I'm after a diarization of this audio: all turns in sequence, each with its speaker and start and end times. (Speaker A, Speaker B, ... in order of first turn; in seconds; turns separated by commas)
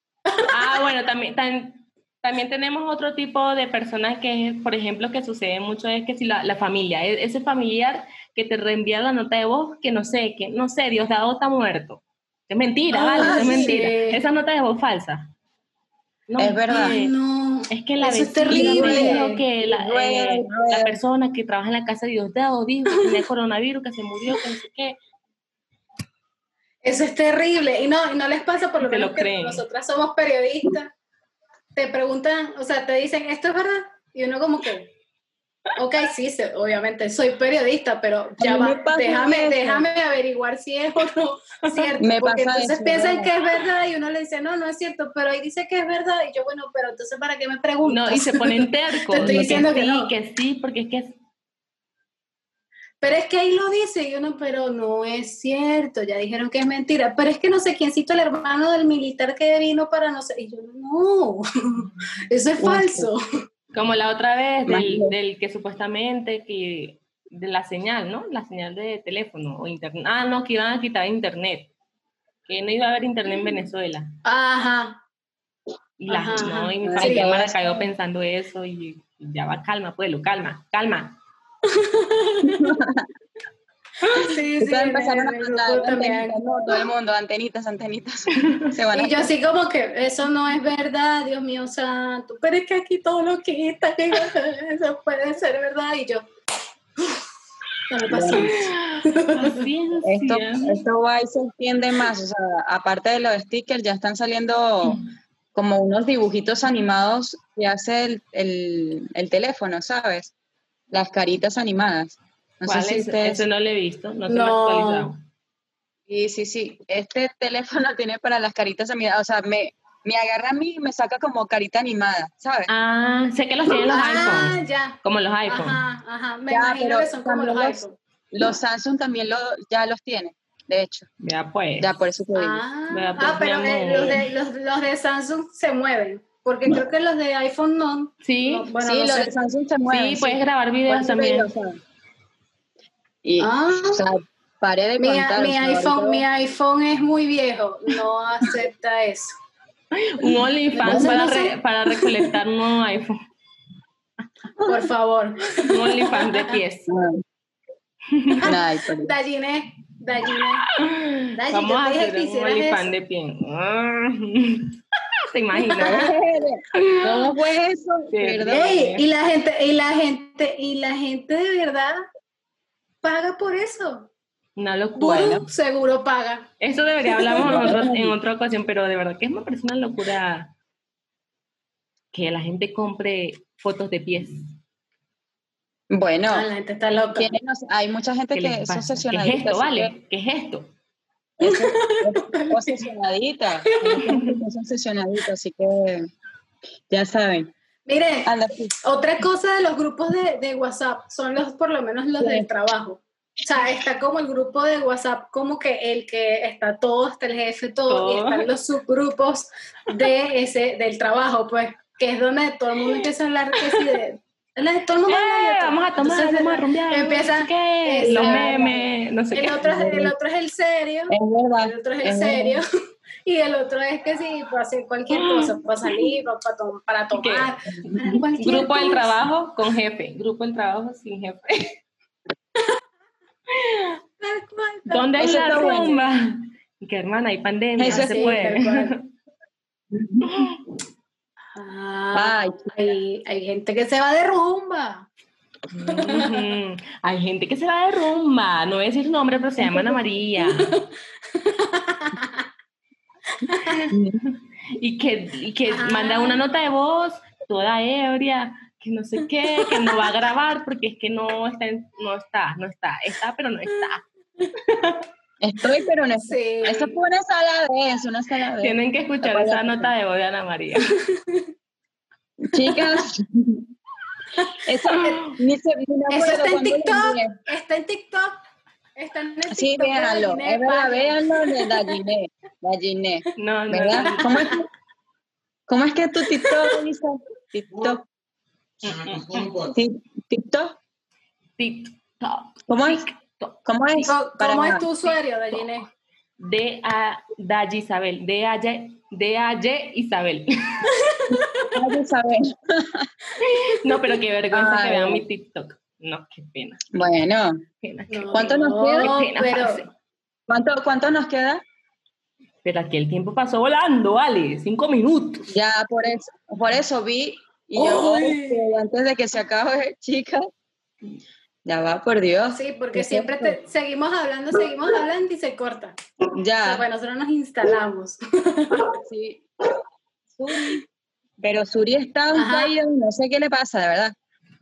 Speaker A: 0.5-15.3, Speaker B: 12.9-14.2, Speaker C: 13.2-13.9, Speaker A: 16.3-17.1, Speaker C: 16.4-17.0, Speaker B: 16.7-19.4, Speaker A: 17.7-25.0, Speaker C: 18.5-21.0, Speaker B: 26.8-30.9, Speaker A: 28.8-29.6, Speaker B: 31.8-34.9, Speaker B: 35.8-50.1, Speaker C: 38.4-39.9, Speaker C: 42.0-43.3, Speaker A: 47.9-51.1, Speaker C: 49.2-49.7, Speaker B: 53.0-63.2, Speaker C: 62.6-63.1, Speaker A: 63.7-71.7, Speaker C: 64.7-65.1, Speaker A: 72.5-74.1, Speaker B: 74.2-75.0, Speaker A: 76.0-81.2, Speaker B: 76.1-77.3, Speaker C: 76.8-77.6, Speaker B: 81.7-82.7, Speaker C: 82.4-83.1, Speaker B: 84.1-86.4, Speaker C: 84.6-89.3, Speaker A: 88.4-88.7, Speaker B: 88.9-96.3, Speaker B: 97.9-99.7, Speaker C: 98.1-98.5, Speaker A: 98.3-100.8, Speaker C: 100.0-105.0, Speaker C: 105.5-110.3, Speaker C: 110.9-113.5, Speaker A: 112.7-115.2, Speaker B: 114.3-115.1, Speaker C: 116.1-122.7, Speaker A: 122.7-125.8, Speaker B: 123.7-128.0, Speaker C: 126.5-131.1, Speaker A: 131.2-131.9, Speaker C: 131.8-132.6, Speaker B: 132.3-139.3, Speaker A: 132.9-134.2, Speaker A: 138.2-138.7, Speaker C: 138.8-141.8, Speaker A: 139.9-141.5, Speaker C: 143.2-146.2, Speaker B: 143.4-144.0, Speaker B: 145.0-149.4, Speaker A: 149.9-153.2, Speaker B: 150.8-152.2, Speaker C: 150.8-151.2, Speaker C: 154.6-154.9, Speaker B: 154.7-156.6, Speaker A: 155.6-156.9, Speaker C: 156.9-157.2, Speaker A: 158.1-158.5, Speaker C: 158.4-159.1, Speaker B: 159.0-160.6, Speaker A: 160.3-164.8, Speaker B: 161.4-162.9, Speaker A: 165.3-166.1, Speaker B: 165.6-166.1, Speaker C: 165.8-168.8, Speaker A: 167.0-167.4, Speaker A: 168.1-169.1, Speaker B: 168.5-172.1, Speaker B: 173.0-174.1, Speaker A: 174.6-175.4, Speaker B: 175.0-176.5, Speaker C: 175.1-175.4, Speaker A: 176.6-180.5, Speaker B: 177.1-177.7, Speaker C: 177.4-178.2, Speaker A: 182.1-184.6, Speaker C: 185.9-186.5, Speaker B: 186.3-187.4, Speaker C: 187.2-189.9, Speaker A: 188.3-190.7, Speaker C: 191.4-196.1, Speaker B: 191.4-192.9, Speaker B: 193.7-194.3, Speaker C: 196.9-197.5, Speaker B: 197.9-222.7, Speaker C: 198.2-198.7, Speaker C: 202.2-202.5, Speaker A: 207.9-208.5, Speaker A: 213.6-214.0, Speaker A: 215.1-219.9, Speaker C: 218.0-218.6, Speaker C: 219.6-220.1, Speaker C: 221.1-222.6, Speaker B: 223.2-229.2, Speaker A: 225.1-226.1, Speaker A: 227.1-227.5, Speaker C: 227.8-228.5, Speaker A: 228.4-231.8, Speaker A: 233.5-234.0, Speaker B: 234.2-236.0, Speaker A: 234.9-239.1, Speaker C: 235.2-236.0, Speaker C: 237.8-238.4, Speaker B: 237.9-239.0, Speaker C: 239.9-240.5, Speaker A: 240.2-240.6, Speaker B: 241.6-245.1, Speaker C: 242.1-242.6, Speaker A: 245.7-250.8, Speaker B: 245.8-246.5, Speaker B: 249.6-250.8, Speaker B: 251.3-252.4, Speaker B: 253.4-253.9, Speaker A: 253.7-264.0, Speaker C: 253.9-254.2, Speaker B: 255.7-256.4, Speaker B: 259.2-260.2, Speaker A: 264.6-265.0, Speaker C: 265.4-269.9, Speaker B: 266.2-266.9, Speaker A: 268.6-270.8, Speaker B: 271.1-271.5, Speaker C: 272.4-273.7, Speaker B: 272.6-272.9, Speaker B: 274.4-275.2, Speaker C: 274.6-277.4, Speaker B: 276.1-278.4, Speaker B: 279.0-282.0, Speaker C: 279.5-284.6, Speaker A: 283.4-284.5, Speaker B: 284.2-284.5, Speaker C: 285.7-288.0, Speaker B: 286.4-286.8, Speaker A: 288.8-289.7, Speaker C: 289.6-290.8, Speaker A: 291.6-294.1, Speaker C: 292.7-293.1, Speaker C: 293.7-294.9, Speaker B: 294.1-295.9, Speaker A: 296.4-300.9, Speaker B: 300.9-301.8, Speaker C: 301.3-303.1, Speaker A: 303.4-306.9, Speaker C: 304.5-305.2, Speaker C: 306.9-307.6, Speaker A: 307.8-309.9, Speaker B: 308.1-309.9, Speaker C: 308.3-309.2, Speaker C: 310.5-311.6, Speaker A: 312.6-315.5, Speaker C: 315.5-320.5, Speaker B: 317.8-318.6, Speaker C: 321.6-323.6, Speaker B: 322.5-325.9, Speaker C: 326.4-326.8, Speaker B: 326.6-328.8, Speaker C: 329.0-329.4, Speaker C: 330.4-330.8, Speaker C: 331.4-334.1, Speaker B: 332.3-332.7